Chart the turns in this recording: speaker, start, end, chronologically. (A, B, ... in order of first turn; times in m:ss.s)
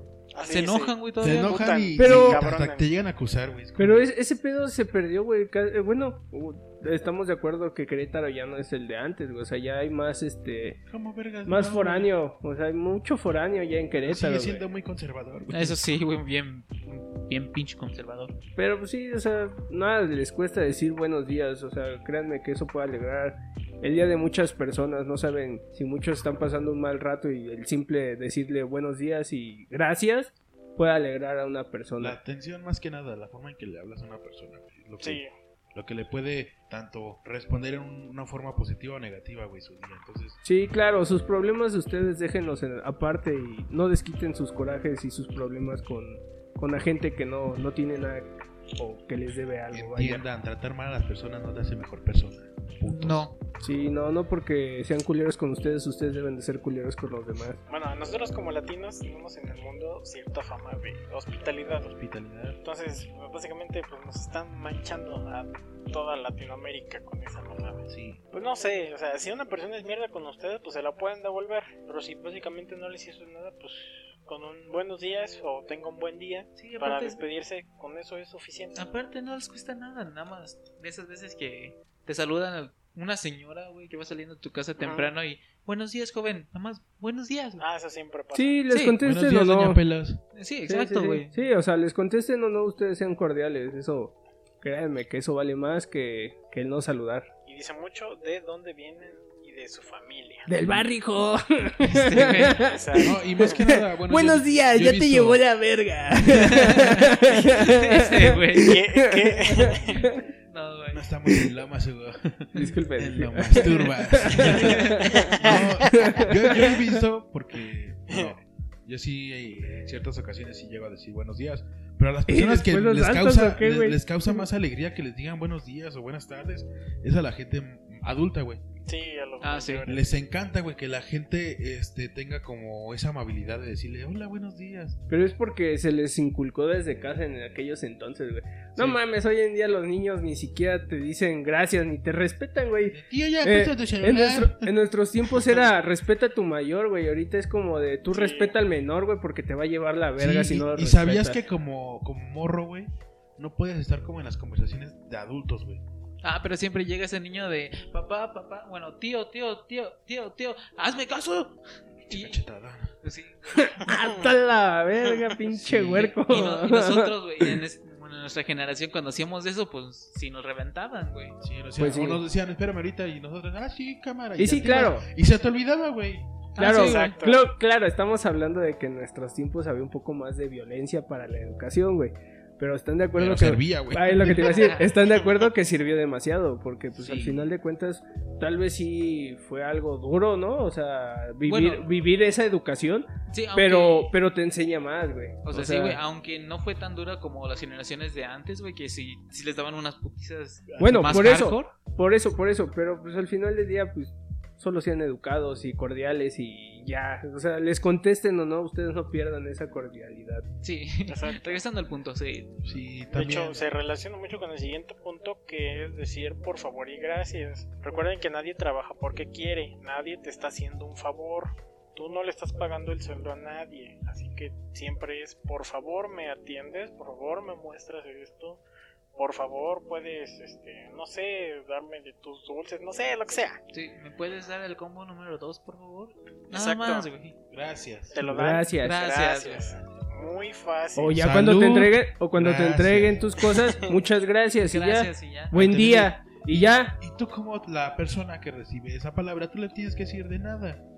0:00.3-0:02.9 A
0:00.4-0:01.8 B
0:01.2-0:04.1 C
0:02.0-0:02.4 D
0:03.8-0:10.8 D
0:10.9-0:12.1 C
0:11.5-0:14.6 D
0:14.0-0:15.8 C
0:15.5-0:18.3 B
0:18.6-0:32.2 D
0:32.0-0:35.2 C
0:35.0-0:35.3 A
0:35.7-0:40.4 C
0:40.4-0:50.2 D
0:49.7-0:53.3 C
0:52.8-0:53.4 B
0:53.6-0:57.6 D
0:57.7-1:01.9 A
1:01.9-1:02.6 C
1:02.6-1:18.8 A
1:07.9-1:08.2 C
1:16.6-1:17.2 B
1:18.8-1:27.6 B
1:24.8-1:25.1 A
1:27.6-1:28.6 A
1:28.4-1:29.8 D
1:28.7-1:29.0 B
1:29.0-1:30.2 C
1:30.3-1:31.3 B
1:30.7-1:37.3 D
1:37.5-1:40.5 A
1:40.5-1:50.2 D
1:41.8-1:42.6 B
1:42.6-1:43.5 A
1:43.0-1:45.4 C
1:46.3-1:48.8 B
1:48.6-1:49.8 A
1:49.7-1:50.0 C
1:50.5-1:51.1 B
1:50.9-2:08.6 C
1:52.6-1:56.8 D
1:54.4-1:55.1 B
1:55.1-1:55.6 A
2:02.3-2:04.5 D
2:08.9-2:10.1 A
2:09.4-2:09.8 B
2:09.9-2:15.0 C
2:15.1-2:31.4 D
2:22.9-2:24.7 C
2:28.1-2:28.6 A
2:30.2-2:35.8 C
2:36.2-2:41.6 B
2:42.1-2:42.9 C
2:42.1-2:42.4 B
2:43.0-2:43.8 B
2:43.6-2:47.6 D
2:43.9-2:44.3 A
2:45.5-2:46.1 C
2:45.8-2:51.4 B
2:51.4-2:56.5 C
2:51.8-2:52.2 D
2:54.4-2:55.1 D
2:56.6-2:57.2 B
2:56.6-3:16.0 D
2:56.6-2:57.5 A
3:03.2-3:04.6 C
3:04.4-3:05.0 B
3:07.0-3:07.5 B
3:11.5-3:11.9 B
3:13.3-3:14.2 B
3:15.4-3:21.7 B
3:20.7-3:21.4 C
3:20.8-3:30.5 D
3:30.6-3:32.6 B
3:31.1-3:31.5 A
3:32.6-3:33.6 C
3:33.1-3:48.6 A
3:49.2-3:53.6 A
3:53.7-3:57.4 B
3:56.5-3:57.1 A
3:57.5-3:58.2 C
3:58.1-4:01.2 A
3:58.2-3:59.0 D
3:58.8-3:59.8 B
4:01.0-4:07.0 D
4:01.1-4:03.3 C
4:04.7-4:05.5 B
4:05.5-4:10.8 C